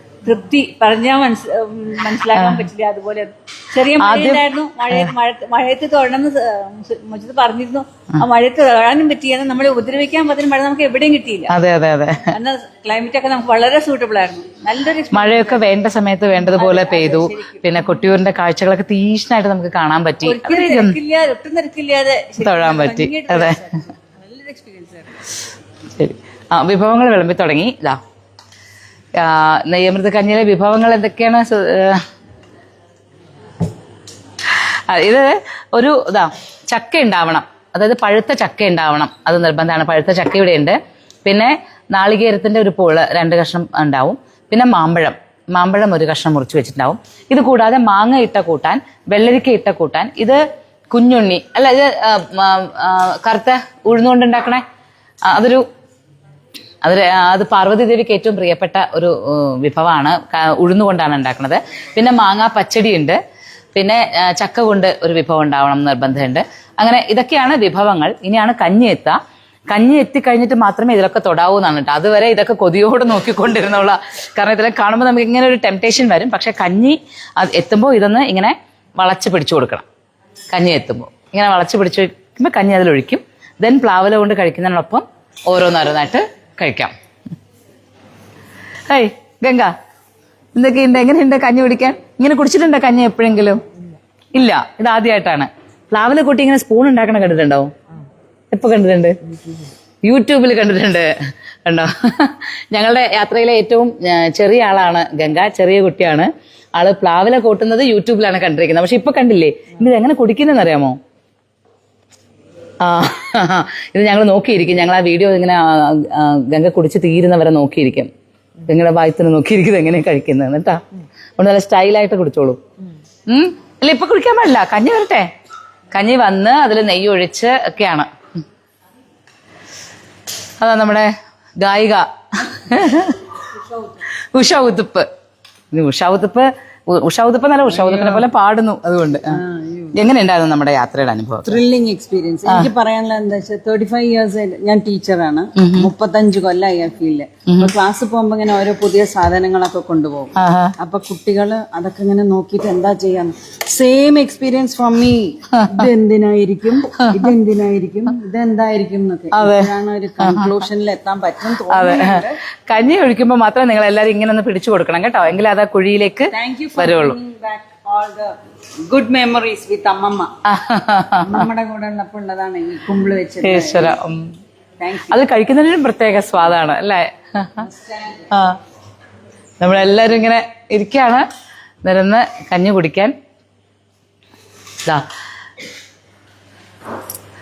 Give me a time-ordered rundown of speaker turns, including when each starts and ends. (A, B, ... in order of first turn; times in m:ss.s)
0:00.2-0:11.5 A
0:02.4-0:02.6 B
0:04.0-0:04.4 B
0:11.5-0:12.3 B
0:12.2-0:15.7 A
0:15.1-0:21.0 B
0:16.5-0:17.6 A
0:20.2-0:25.2 A
0:22.4-0:23.6 B
0:26.0-0:28.0 B
0:29.2-0:32.0 B
0:34.5-0:50.4 B
0:50.9-0:54.6 B
0:55.3-0:55.6 B
0:56.8-1:03.2 B
1:03.8-1:09.2 B
1:09.7-1:19.8 B
1:20.5-1:26.9 B
1:28.9-1:29.7 B
1:30.6-1:33.6 B
1:34.4-1:37.7 B
1:38.5-1:39.2 B
1:40.0-1:41.1 B
1:41.7-1:51.0 B
1:52.8-1:58.1 B
1:58.7-2:00.8 B
2:01.4-2:02.6 B
2:03.3-2:05.3 B
2:05.9-2:08.1 B
2:10.6-2:13.2 B
2:14.3-2:15.1 B
2:15.7-2:19.4 B
2:17.7-2:18.2 C
2:19.4-2:19.9 C
2:20.0-2:21.6 B
2:21.5-2:42.3 C
2:25.6-2:25.9 B
2:27.5-2:27.7 B
2:30.4-2:30.7 B
2:35.6-2:35.8 B
2:39.3-2:39.7 B
2:40.2-2:40.6 B
2:41.7-2:42.2 B
2:42.7-2:47.2 B
2:46.3-2:48.3 C
2:48.8-2:50.3 C
2:50.4-2:51.5 B
2:51.2-2:54.0 C
2:53.4-2:54.3 B
2:54.8-2:55.2 C
2:55.1-2:57.6 B
2:57.6-2:58.2 C
2:58.3-2:58.6 B
2:59.6-3:01.3 B
3:01.8-3:03.2 B